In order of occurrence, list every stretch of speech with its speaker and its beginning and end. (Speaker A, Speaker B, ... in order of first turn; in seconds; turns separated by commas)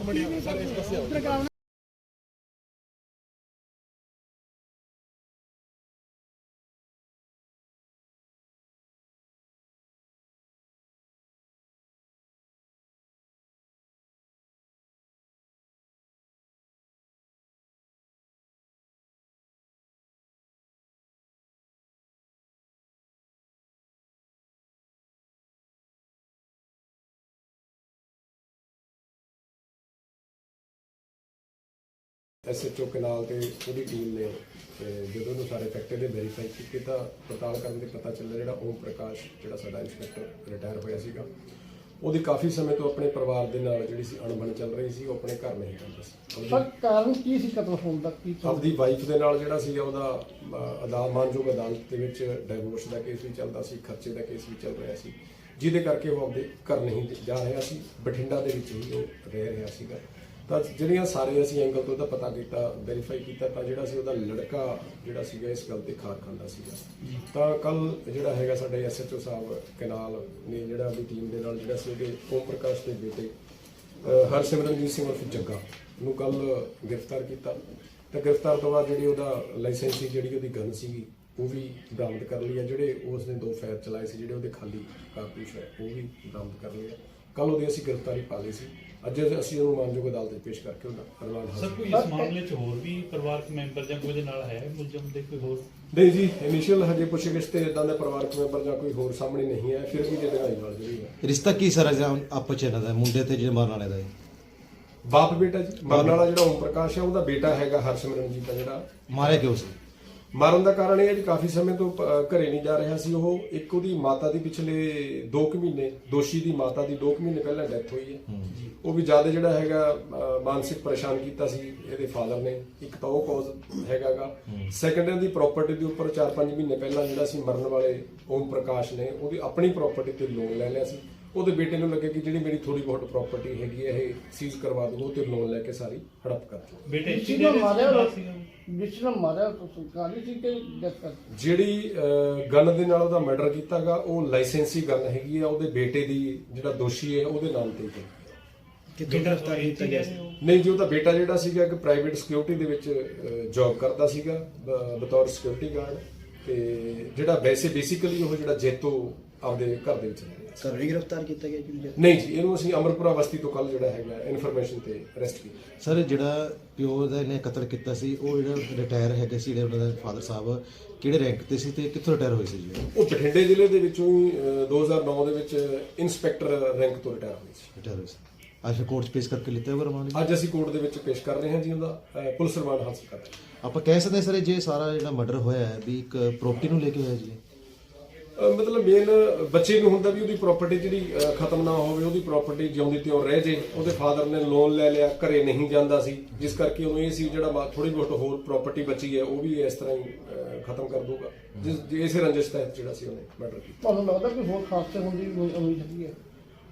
Speaker A: 32.5-41.3, Speaker A: 42.0-46.7, Speaker B: 46.5-48.6, Speaker A: 48.4-73.3, Speaker A: 74.0-92.0, Speaker C: 91.6-95.7, Speaker B: 91.9-92.3, Speaker A: 95.9-101.2, Speaker D: 101.2-104.1, Speaker A: 105.0-109.5, Speaker D: 105.8-106.2, Speaker D: 109.1-109.8, Speaker A: 110.3-118.2, Speaker A: 118.8-136.8, Speaker C: 136.9-138.5, Speaker B: 137.1-138.1, Speaker B: 138.7-141.2, Speaker A: 141.3-148.4, Speaker E: 149.0-150.2, Speaker C: 149.0-150.3, Speaker A: 150.4-160.9, Speaker E: 160.6-161.9, Speaker A: 162.0-165.6, Speaker D: 165.8-172.9, Speaker A: 172.9-177.7, Speaker D: 177.8-180.3, Speaker A: 180.1-183.3, Speaker D: 183.6-187.4, Speaker A: 188.4-203.8, Speaker B: 203.8-206.2